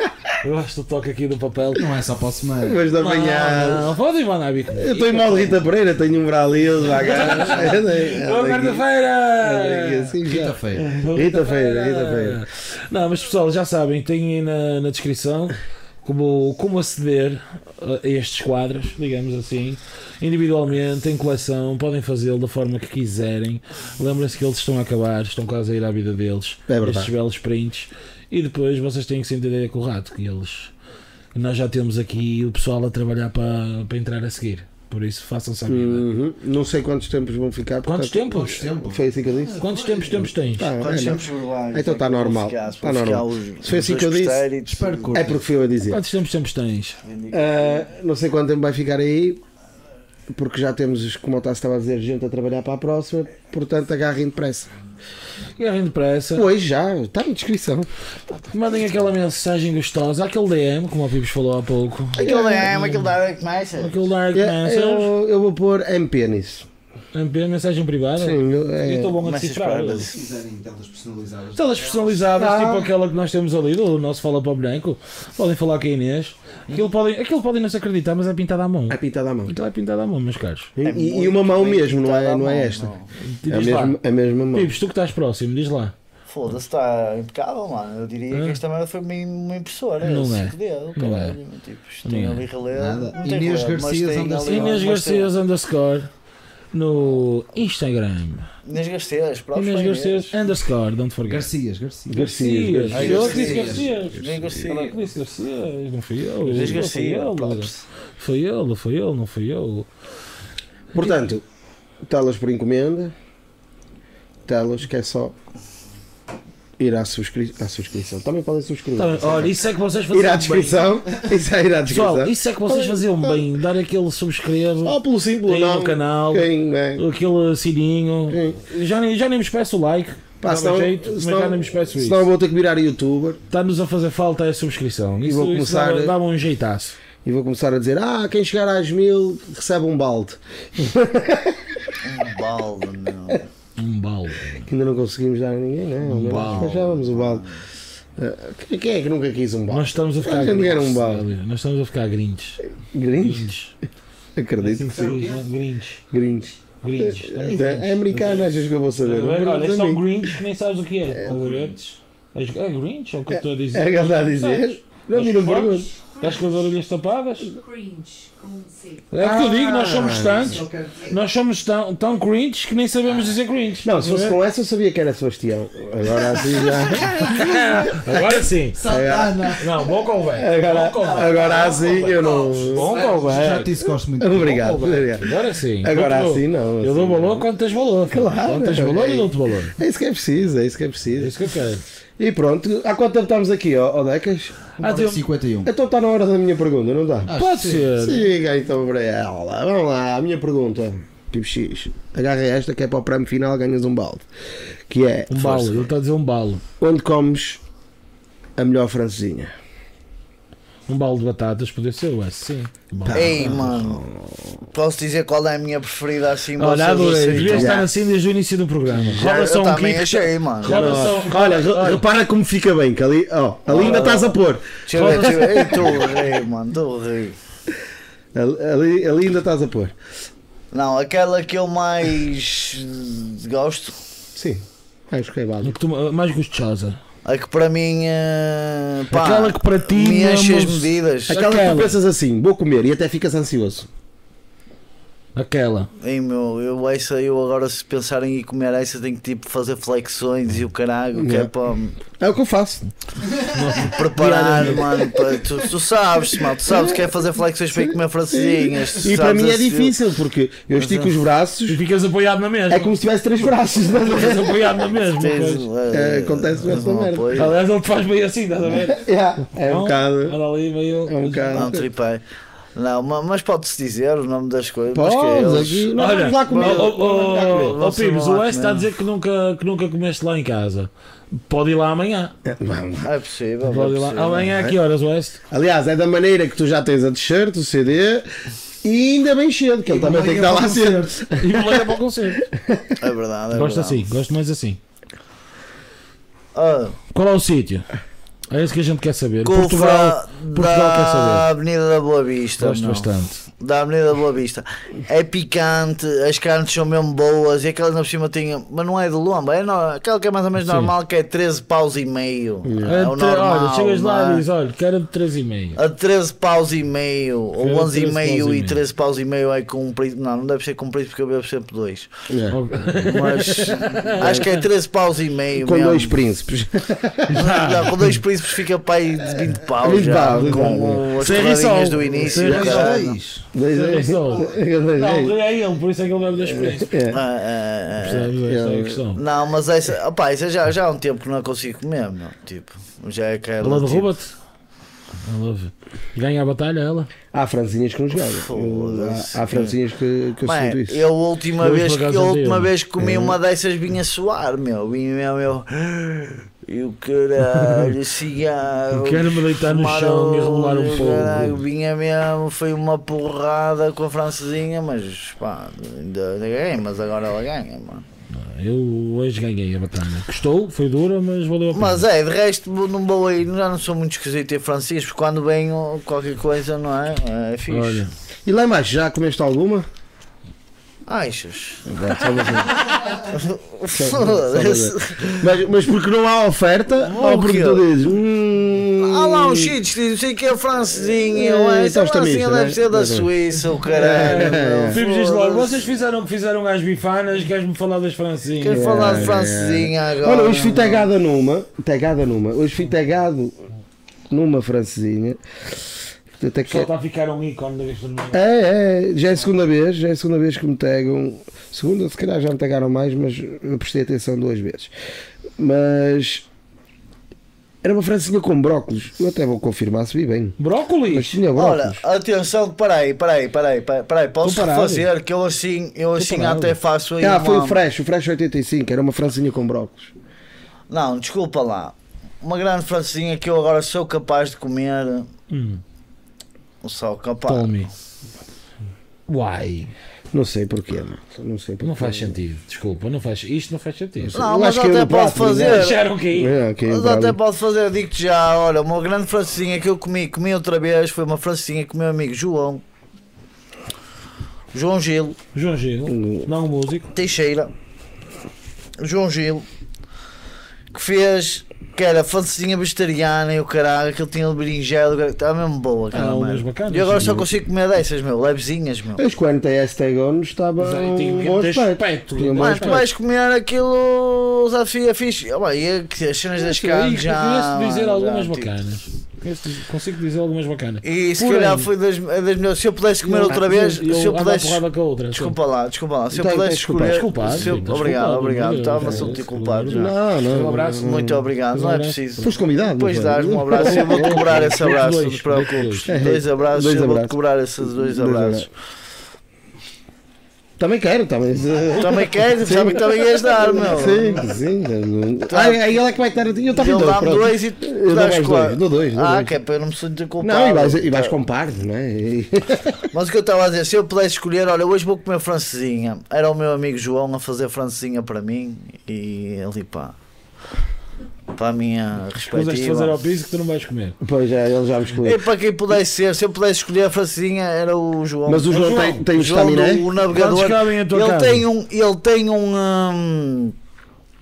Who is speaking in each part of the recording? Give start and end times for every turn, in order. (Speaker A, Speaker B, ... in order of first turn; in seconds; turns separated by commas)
Speaker A: 0.4-1.9, Speaker B: 1.7-2.9, Speaker C: 2.6-3.9, Speaker A: 3.0-5.5, Speaker C: 4.7-8.8, Speaker A: 6.9-10.2, Speaker C: 9.4-12.4, Speaker B: 10.2-10.9, Speaker A: 10.8-30.7, Speaker C: 26.7-27.1, Speaker A: 31.3-36.0, Speaker C: 35.7-39.6, Speaker A: 37.8-38.7, Speaker B: 38.3-40.3, Speaker A: 39.6-40.7, Speaker C: 40.5-44.5, Speaker D: 40.8-45.3, Speaker B: 44.6-45.4, Speaker C: 45.1-46.0, Speaker A: 45.8-47.0, Speaker D: 47.0-47.9, Speaker C: 47.3-49.4, Speaker C: 50.3-54.7, Speaker A: 55.6-56.5, Speaker C: 56.3-57.9, Speaker A: 58.5-63.1, Speaker D: 62.1-64.0, Speaker C: 62.2-62.7, Speaker A: 63.8-65.1, Speaker C: 64.3-66.7, Speaker A: 67.1-70.1, Speaker C: 68.2-69.2, Speaker D: 69.2-70.1, Speaker B: 70.1-72.2, Speaker A: 71.5-80.7, Speaker C: 72.3-72.9, Speaker C: 78.9-79.5, Speaker C: 80.8-82.9, Speaker D: 80.8-83.1, Speaker A: 83.2-84.0, Speaker C: 83.5-84.7, Speaker A: 84.5-85.9, Speaker D: 86.3-95.3, Speaker A: 88.3-88.6, Speaker A: 90.0-91.4, Speaker A: 92.0-92.4, Speaker B: 92.7-94.8, Speaker A: 94.5-96.1, Speaker A: 96.7-98.5, Speaker D: 98.6-100.3, Speaker A: 99.5-101.5, Speaker B: 101.2-102.3, Speaker C: 102.1-103.5, Speaker A: 102.2-109.9, Speaker B: 102.9-104.5, Speaker D: 103.0-105.0, Speaker D: 106.4-107.8, Speaker C: 110.9-111.4, Speaker C: 112.0-113.1, Speaker C: 114.5-115.3, Speaker C: 116.8-119.5, Speaker A: 119.0-120.9, Speaker C: 120.1-123.4, Speaker A: 121.9-132.3, Speaker C: 124.8-127.0, Speaker C: 128.3-128.6, Speaker C: 130.4-133.4, Speaker A: 133.5-137.0, Speaker C: 135.2-136.1, Speaker C: 137.2-141.8, Speaker D: 142.0-143.5, Speaker A: 143.8-144.7, Speaker C: 144.6-147.4, Speaker A: 146.0-146.8, Speaker D: 146.3-147.6, Speaker C: 148.2-151.2, Speaker A: 149.7-152.6, Speaker C: 152.9-153.5, Speaker A: 153.2-153.7, Speaker C: 154.3-155.2, Speaker A: 154.6-156.0, Speaker B: 154.9-155.4, Speaker C: 156.1-160.3, Speaker A: 156.8-167.5, Speaker B: 161.3-161.7, Speaker C: 163.3-165.9, Speaker E: 166.1-166.6, Speaker E: 167.4-169.1, Speaker A: 169.1-174.4, Speaker C: 169.2-170.6, Speaker B: 169.8-171.2, Speaker C: 173.8-179.6, Speaker A: 176.8-183.8, Speaker B: 178.7-179.9, Speaker C: 180.3-182.9, Speaker B: 180.9-184.7, Speaker C: 184.2-187.5, Speaker A: 184.3-189.8, Speaker C: 188.1-191.3, Speaker A: 191.2-191.8, Speaker C: 192.2-194.6, Speaker B: 194.8-195.7, Speaker A: 194.8-195.2, Speaker C: 195.6-197.3, Speaker B: 197.2-197.9, Speaker A: 197.3-198.2, Speaker C: 198.0-204.2, Speaker C: 204.9-205.9, Speaker A: 205.3-206.6, Speaker C: 206.8-207.6, Speaker C: 208.6-209.5, Speaker A: 210.9-213.6, Speaker C: 213.0-214.6, Speaker D: 213.1-214.0, Speaker D: 214.7-217.8, Speaker A: 216.6-222.0, Speaker C: 217.3-217.9, Speaker D: 219.1-221.0, Speaker C: 220.6-226.2, Speaker D: 223.7-227.3, Speaker A: 223.8-224.1, Speaker A: 224.9-225.9, Speaker C: 228.3-229.9, Speaker D: 230.7-233.9, Speaker C: 234.3-235.8, Speaker A: 235.6-237.0, Speaker D: 237.2-241.4, Speaker A: 239.1-241.9, Speaker C: 241.3-243.9, Speaker A: 245.3-245.9, Speaker D: 246.0-252.0, Speaker C: 251.1-251.5, Speaker C: 252.0-252.9, Speaker A: 253.4-255.0, Speaker D: 253.8-260.0, Speaker C: 254.1-255.4, Speaker C: 256.6-261.8, Speaker D: 260.7-261.1, Speaker A: 261.7-265.7, Speaker C: 262.7-264.8, Speaker D: 265.1-267.5, Speaker C: 265.9-267.5, Speaker A: 267.3-269.0, Speaker C: 268.8-270.4, Speaker A: 269.6-271.7, Speaker C: 271.1-271.9, Speaker D: 271.5-272.2, Speaker D: 272.8-278.9, Speaker C: 274.9-277.8, Speaker A: 275.9-282.3, Speaker C: 282.4-283.1, Speaker D: 283.0-284.5, Speaker A: 283.6-285.4, Speaker C: 284.5-284.8, Speaker C: 285.5-288.2, Speaker C: 288.8-292.9, Speaker B: 289.8-291.2, Speaker A: 291.4-292.5, Speaker D: 293.0-294.1, Speaker A: 293.5-294.8, Speaker D: 296.5-297.0, Speaker A: 297.1-297.9, Speaker A: 298.5-301.5, Speaker D: 299.4-303.1, Speaker A: 302.6-303.4, Speaker D: 303.6-314.4, Speaker A: 310.6-310.9, Speaker C: 312.6-313.0, Speaker A: 312.8-315.8, Speaker D: 315.8-322.1, Speaker A: 317.6-318.8, Speaker C: 322.3-322.6, Speaker A: 322.5-324.6, Speaker D: 323.0-326.2, Speaker C: 324.2-324.5, Speaker C: 325.6-327.4, Speaker A: 327.3-328.2, Speaker D: 327.3-333.2, Speaker C: 329.7-331.2, Speaker A: 330.4-336.9, Speaker B: 332.0-333.4, Speaker C: 333.5-335.4, Speaker C: 336.5-337.2, Speaker D: 337.1-338.3, Speaker A: 338.0-339.2, Speaker C: 338.4-339.0, Speaker D: 339.1-344.1, Speaker A: 343.6-344.3, Speaker A: 345.2-347.1, Speaker C: 347.3-351.0, Speaker D: 348.1-349.8, Speaker D: 350.4-368.0, Speaker A: 351.6-352.7, Speaker C: 353.0-353.4, Speaker A: 358.9-361.6, Speaker A: 368.4-372.0, Speaker D: 371.7-378.1, Speaker A: 377.7-378.1, Speaker C: 378.4-379.9, Speaker D: 381.1-385.4, Speaker C: 381.9-382.7, Speaker C: 383.9-389.7, Speaker D: 387.0-387.8, Speaker D: 389.0-395.8, Speaker C: 391.2-393.3, Speaker C: 393.9-395.0, Speaker A: 393.9-399.3, Speaker D: 398.6-401.1, Speaker C: 398.7-403.5, Speaker C: 404.3-405.4, Speaker C: 406.4-406.9, Speaker A: 406.7-408.4, Speaker C: 408.3-414.9, Speaker C: 415.6-416.4, Speaker C: 417.8-420.6, Speaker A: 420.6-421.3, Speaker C: 421.1-422.0, Speaker D: 421.5-427.8, Speaker A: 424.4-425.1, Speaker A: 426.2-426.8, Speaker C: 427.2-430.1, Speaker D: 430.9-435.3, Speaker A: 435.5-435.8, Speaker D: 436.8-437.7, Speaker A: 437.5-437.9, Speaker A: 439.3-439.9, Speaker C: 440.3-442.4, Speaker A: 441.8-444.4, Speaker C: 444.2-447.4, Speaker D: 444.3-446.0, Speaker A: 445.5-446.5, Speaker D: 446.8-452.8, Speaker D: 454.7-455.4, Speaker A: 455.5-457.1, Speaker C: 456.1-456.5, Speaker D: 457.1-457.7, Speaker D: 459.0-459.6, Speaker D: 460.9-469.2, Speaker A: 466.1-467.5, Speaker C: 469.2-473.0, Speaker A: 470.8-473.1, Speaker D: 472.6-478.7, Speaker A: 476.6-481.9, Speaker D: 481.0-484.8, Speaker A: 483.2-485.6, Speaker D: 485.3-490.1, Speaker C: 486.3-488.0, Speaker A: 487.0-492.2, Speaker C: 489.0-491.4, Speaker D: 491.0-498.7, Speaker C: 492.4-494.6, Speaker A: 493.7-496.0, Speaker C: 496.1-498.7, Speaker C: 500.8-509.5, Speaker D: 501.9-504.3, Speaker D: 505.5-505.8, Speaker D: 506.7-511.4, Speaker C: 510.4-513.1, Speaker D: 513.1-520.1, Speaker D: 521.5-523.1, Speaker A: 522.4-524.1, Speaker C: 524.2-525.5, Speaker D: 525.2-533.7, Speaker C: 528.5-530.0, Speaker A: 528.7-529.2, Speaker A: 530.2-531.6